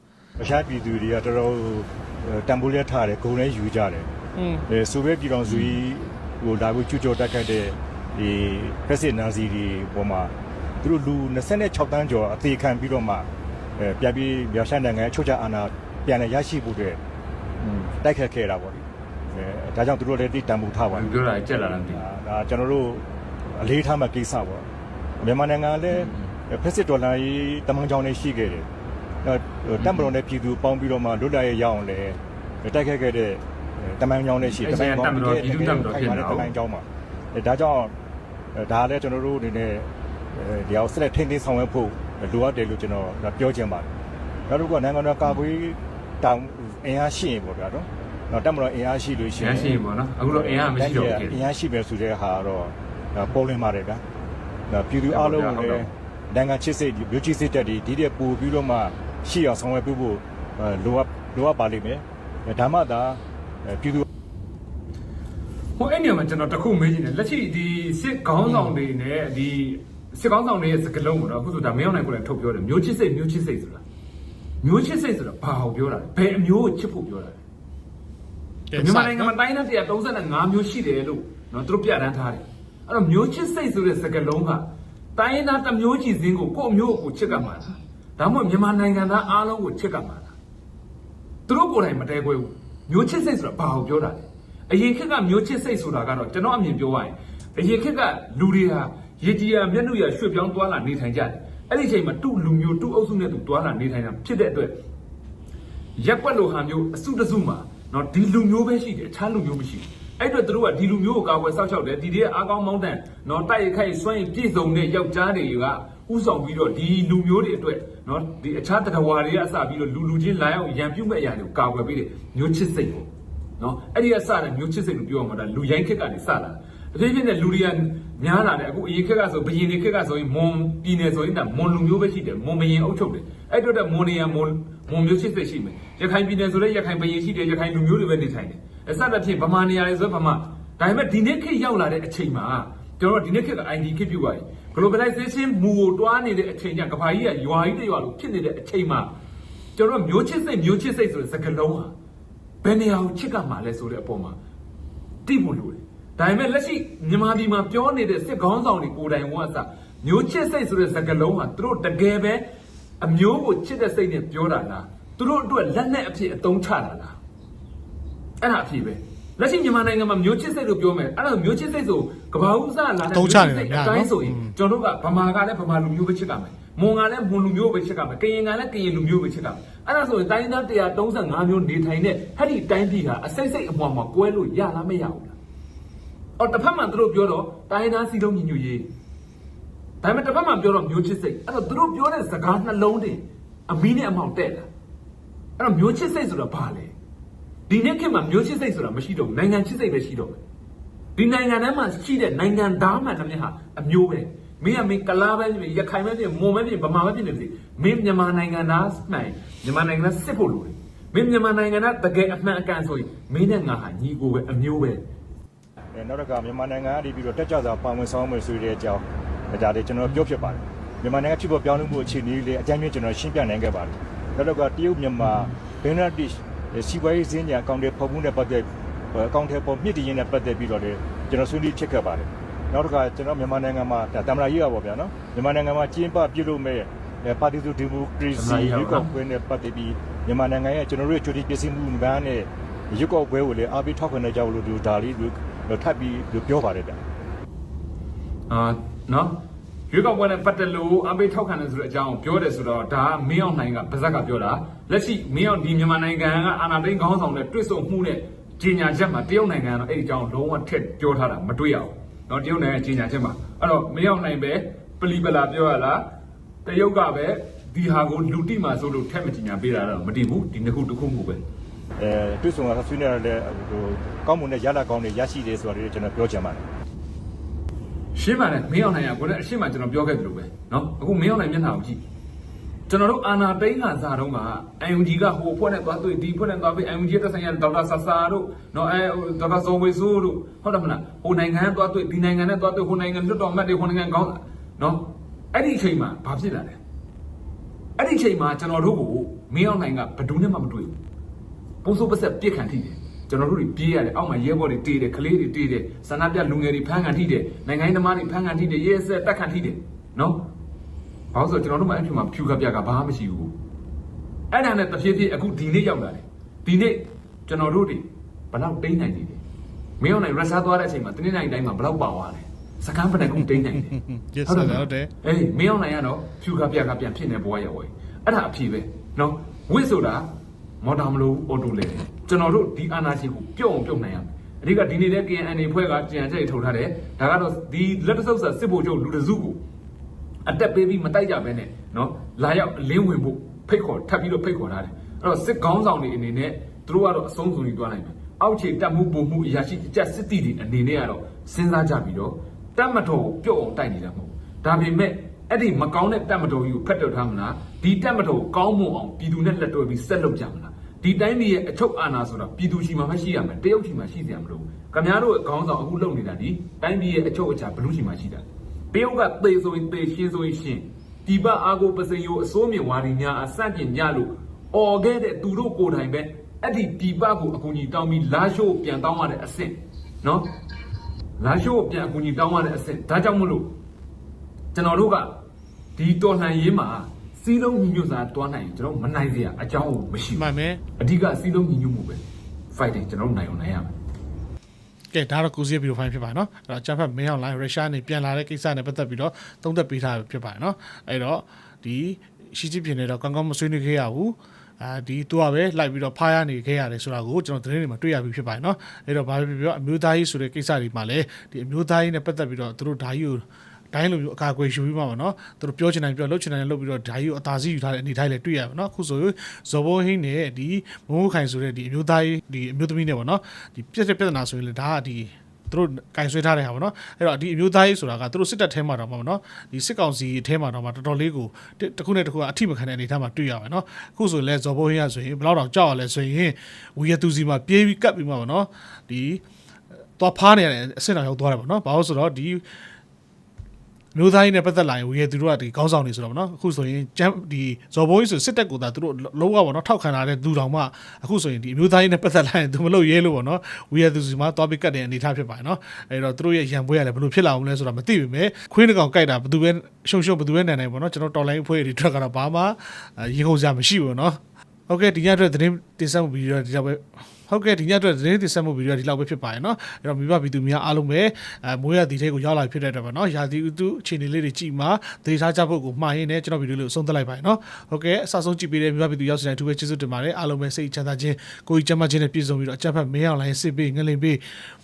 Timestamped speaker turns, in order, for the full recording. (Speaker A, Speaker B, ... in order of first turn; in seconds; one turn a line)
Speaker A: 0.4-4.1
Speaker B: 4.4-4.6
Speaker A: 4.7-17.0
Speaker C: 5.5-5.8
Speaker A: 17.6-24.7
Speaker C: 20.9-22.0
Speaker A: 25.2-28.7
Speaker C: 25.9-26.3
Speaker A: 29.2-37.9
Speaker C: 29.8-30.1
Speaker C: 34.4-36.5
Speaker A: 38.5-43.9
Speaker A: 44.5-54.0
Speaker C: 49.4-51.5
Speaker A: 54.7-64.0
Speaker C: 55.1-55.9
Speaker C: 65.8-73.8
Speaker B: 68.5-68.8
Speaker C: 74.6-77.4
Speaker B: 78.7-79.3
Speaker C: 78.8-90.3
Speaker C: 91.5-104.8
Speaker C: 106.0-149.1
Speaker C: 149.8-151.9
Speaker C: 152.6-154.4
Speaker C: 155.3-162.4
Speaker C: 163.0-167.2
Speaker C: 168.4-185.3
Speaker B: 173.1-174.5
Speaker C: 186.4-188.9
Speaker C: 190.0-194.7
Speaker C: 195.6-196.9
Speaker C: 197.7-200.4
Speaker C: 201.2-215.0
Speaker A: 215.9-247.0
Speaker C: 238.3-239.1
Speaker C: 248.5-249.4
Speaker C: 249.9-266.0
Speaker C: 266.6-271.4
Speaker A: 272.0-276.6
Speaker C: 278.1-282.0
Speaker C: 282.9-296.8
Speaker C: 298.0-301.0
Speaker C: 301.8-310.4
Speaker C: 311.3-313.5
Speaker C: 314.5-319.4
Speaker C: 320.0-330.3
Speaker B: 323.2-325.1
Speaker C: 330.8-339.6
Speaker C: 340.5-380.5
Speaker C: 381.4-383.8
Speaker C: 384.7-385.3
Speaker C: 386.0-390.5
Speaker B: 390.4-390.8
Speaker C: 391.0-392.2
Speaker C: 392.7-393.9
Speaker B: 395.1-439.4
Speaker B: 440.2-442.6
Speaker B: 444.1-464.4
Speaker B: 464.9-484.4